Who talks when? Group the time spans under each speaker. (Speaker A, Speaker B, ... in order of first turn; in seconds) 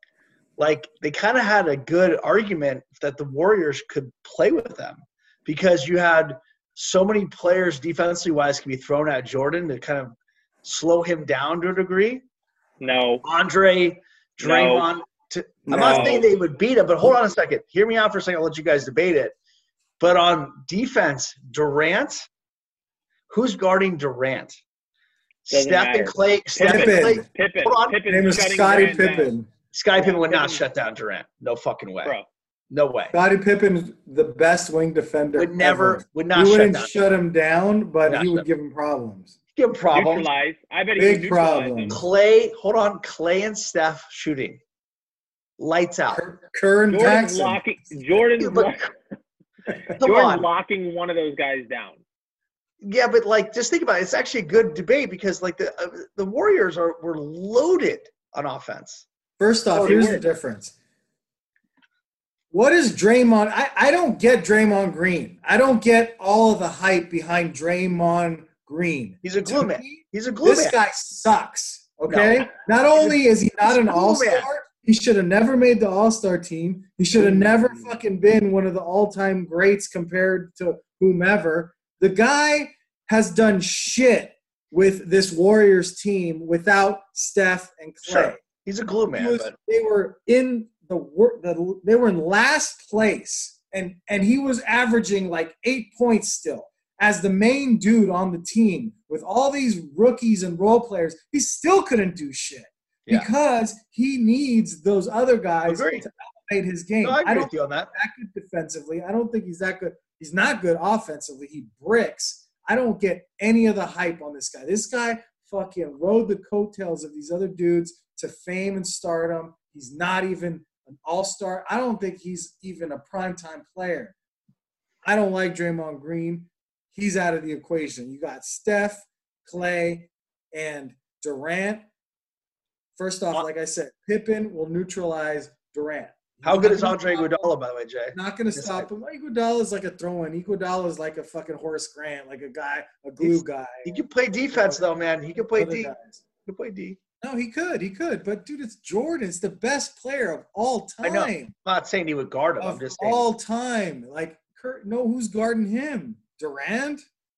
Speaker A: 0.6-12.2, 13.2-19.3, 20.0-22.3, 23.3-24.6, 25.4-28.0, 29.7-32.1, 32.7-33.1, 35.4-36.9, 38.0-38.5, 39.5-40.3, 41.9-44.6, 45.6-46.2, 48.2-48.8, 49.9-50.5, 52.8-59.0, 59.7-60.2, 69.2-70.7, 72.1-74.5, 88.0-89.5, 105.7-106.0, 107.0-107.9, 136.4-138.9, 143.2-145.9, 146.4-147.0, 151.0-153.2
Speaker B: 12.8-13.2, 14.4-14.9, 15.7-16.2, 25.5-29.3, 30.0-30.6, 39.9-42.0, 46.9-48.9, 50.0-52.0, 59.8-60.2
Speaker C: 15.7-16.2, 26.6-27.2, 28.1-29.5, 33.1-39.3, 41.0-42.0, 46.1-47.6, 59.4-60.7, 62.5-88.4, 89.1-124.1, 125.0-131.8, 132.9-137.5, 138.1-144.8, 145.5-146.2, 147.2-151.5, 152.6-157.1